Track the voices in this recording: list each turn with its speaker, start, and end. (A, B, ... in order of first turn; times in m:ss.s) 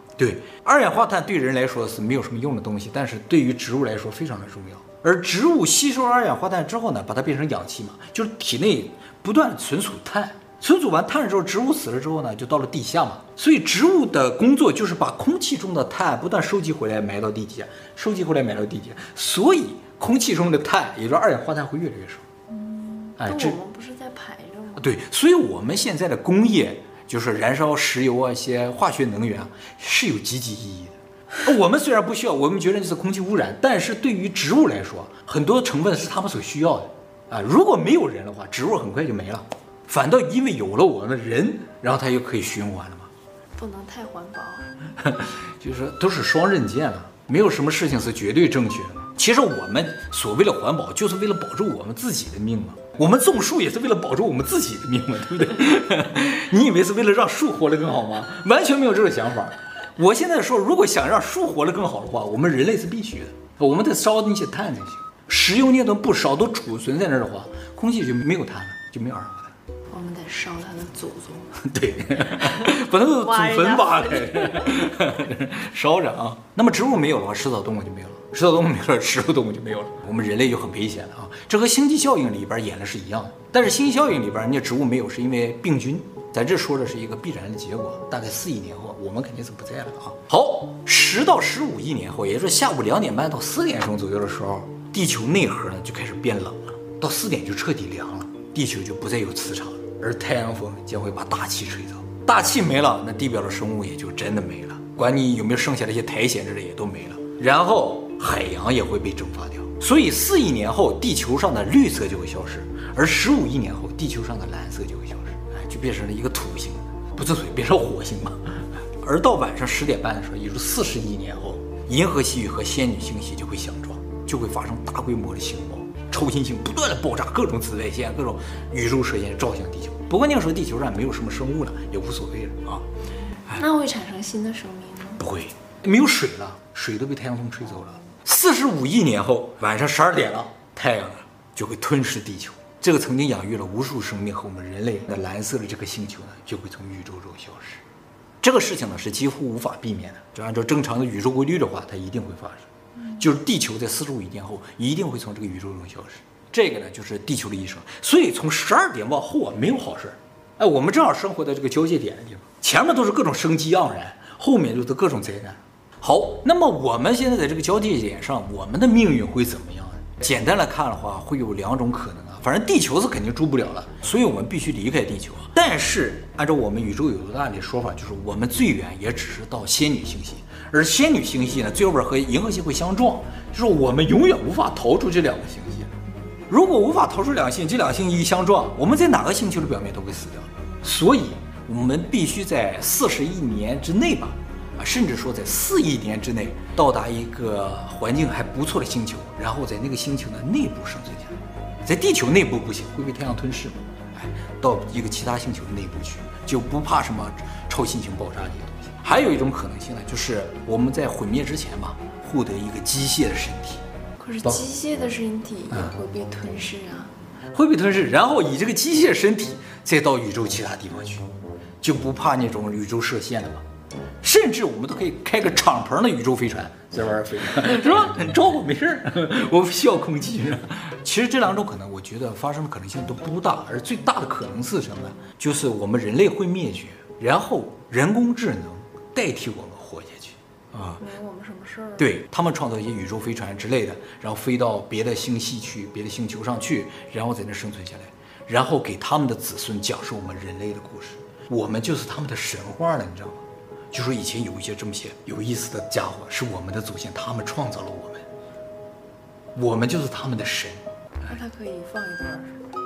0:00.2-0:22.2 A
0:22.5-0:24.9 B
0:23.2-0:23.6 A
0:24.8-0:43.1 A
0:43.6-0:44.9 B
0:45.0-1:09.5 A
1:09.9-1:11.6 B
1:11.6-2:12.8 A
1:12.4-1:15.2 B
2:13.5-2:15.2 B
2:15.2-2:27.8 A
2:28.4-3:05.9 A
3:06.5-3:33.8 A
3:34.2-3:37.1 B
3:37.5-3:41.3 A
3:41.8-3:43.6 A
3:44.2-4:01.0 A
4:01.0-4:02.1 B
4:02.0-4:18.2 A
4:19.5-4:21.3 A
4:21.2-4:22.7 B